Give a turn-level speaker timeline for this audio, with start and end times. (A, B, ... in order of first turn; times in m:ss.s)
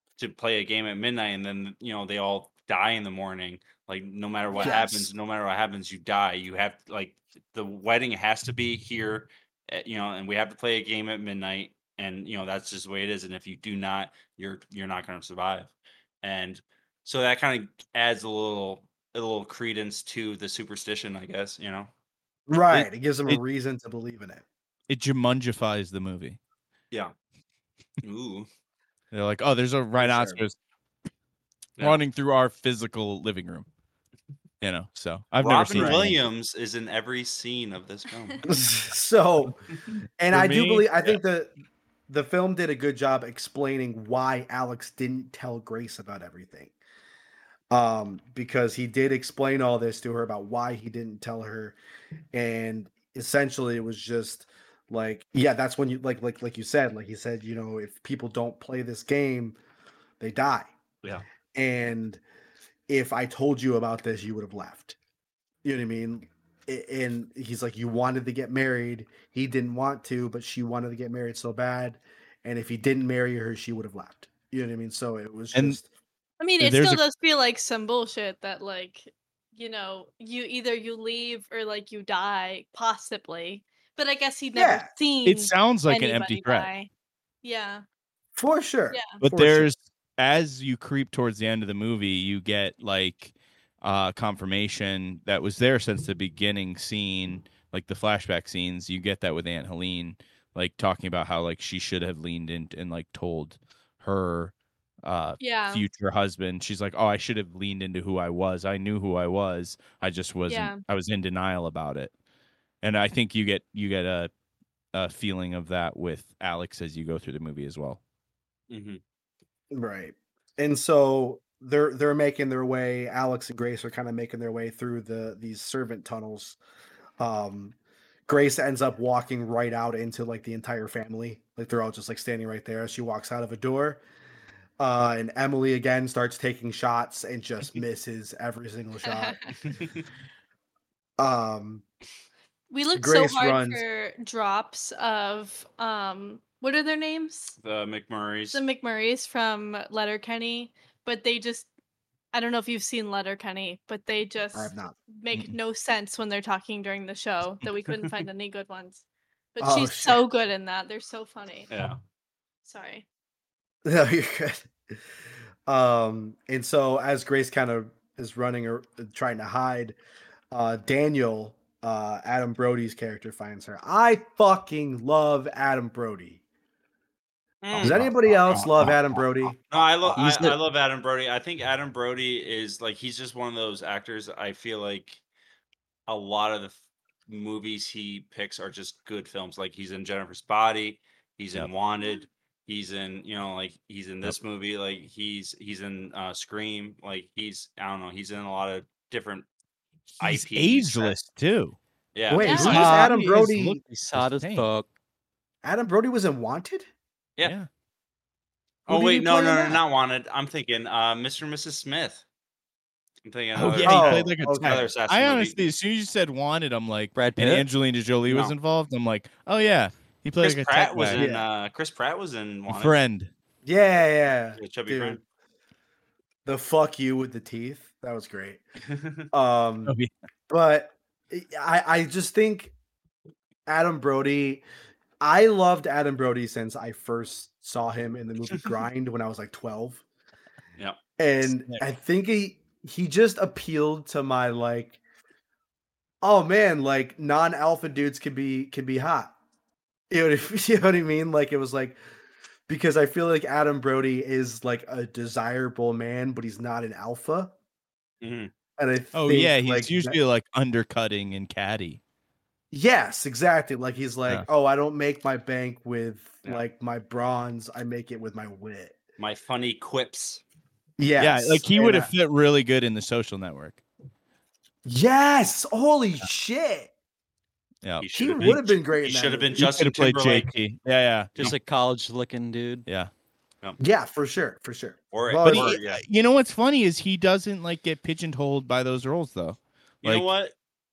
0:00.2-0:21.9 A
0:04.6-0:04.9 B
0:22.5-0:24.4 B
0:22.7-0:23.4 C
0:24.9-0:26.4 C
0:28.0-0:28.5 A
0:29.1-0:30.6 C
0:30.0-0:30.4 B
0:31.8-0:33.7 C
0:34.6-0:36.2 C
0:35.4-0:38.5 A
0:38.4-0:39.6 B
0:40.2-0:41.5 B
0:40.3-0:40.8 C
0:42.1-0:46.7 B
0:47.7-0:51.8 B
0:52.3-0:59.6 B
1:00.2-1:00.7 B
1:01.5-1:02.2 B
1:02.9-1:05.0 B
1:05.6-1:15.8 B
1:16.4-1:26.9 D
1:16.6-1:17.0 C
1:24.5-1:24.9 B
1:25.2-1:26.7 C
1:27.4-1:27.8 D
1:28.4-1:29.7 B
1:28.9-1:29.2 D
1:29.2-1:52.1 C
1:45.4-1:45.8 D
1:50.5-1:50.8 D
1:52.8-1:54.3 C
1:54.9-1:58.0 C
1:58.7-1:59.0 A
1:59.7-2:06.6 B
2:07.2-2:07.8 B
2:08.3-2:14.0 B
2:14.8-2:19.5 B
2:19.0-2:19.5 D
2:19.6-2:20.0 A
2:21.2-2:21.8 B
2:22.7-2:27.6 D
2:23.0-2:23.8 B
2:27.6-2:28.6 A
2:28.5-2:31.7 D
2:32.3-2:39.0 D
2:34.5-2:35.0 B
2:39.6-2:41.7 D
2:39.6-2:40.2 B
2:41.7-2:42.0 A
2:42.6-2:43.1 D
2:43.8-2:44.7 B
2:45.7-2:50.0 B
2:50.5-2:56.4 B
2:57.6-2:58.9 A
2:57.8-2:58.1 C
2:57.8-2:59.6 B
2:59.7-3:05.2 A
3:00.0-3:00.6 E
3:06.1-3:06.8 A
3:07.3-3:19.5 A
3:20.2-3:21.2 A
3:20.2-3:21.8 C
3:22.2-3:22.9 A
3:22.3-3:23.8 B
3:22.4-3:23.0 D
3:22.5-3:24.9 E
3:22.6-3:23.1 C
3:24.1-3:24.7 C
3:25.6-3:26.9 B
3:27.4-3:27.7 C
3:28.9-3:32.2 A
3:28.9-3:29.7 B
3:33.2-3:35.6 A
3:33.6-3:41.2 C
3:33.8-3:34.8 B
3:37.2-3:37.7 E
3:38.3-3:38.6 A
3:40.4-3:43.0 A
3:41.1-3:41.5 B
3:42.7-3:43.3 C
3:43.6-3:45.2 B
3:44.6-3:45.2 A
3:46.5-3:48.6 B
3:48.9-3:49.2 A
3:49.3-3:50.0 B
3:49.9-3:50.1 C
3:50.5-3:52.7 B
3:53.7-3:54.6 B
3:55.2-4:00.0 B
4:01.2-4:05.0 B
4:06.2-4:09.3 B
4:10.1-4:12.0 B
4:12.7-4:17.5 B
4:18.2-4:18.5 A
4:18.8-4:20.2 B
4:19.1-4:22.0 C
4:22.7-4:29.0 B
4:29.2-4:30.4 A
4:31.0-4:32.1 B
4:31.2-4:33.8 C
4:34.8-4:36.9 B
4:37.8-4:38.6 C
4:38.0-4:40.5 A
4:38.1-4:39.7 B
4:39.6-4:41.6 C
4:41.4-4:42.9 E
4:43.8-4:45.8 B
4:45.1-4:46.0 A
4:45.4-4:50.3 C
4:50.0-4:50.5 A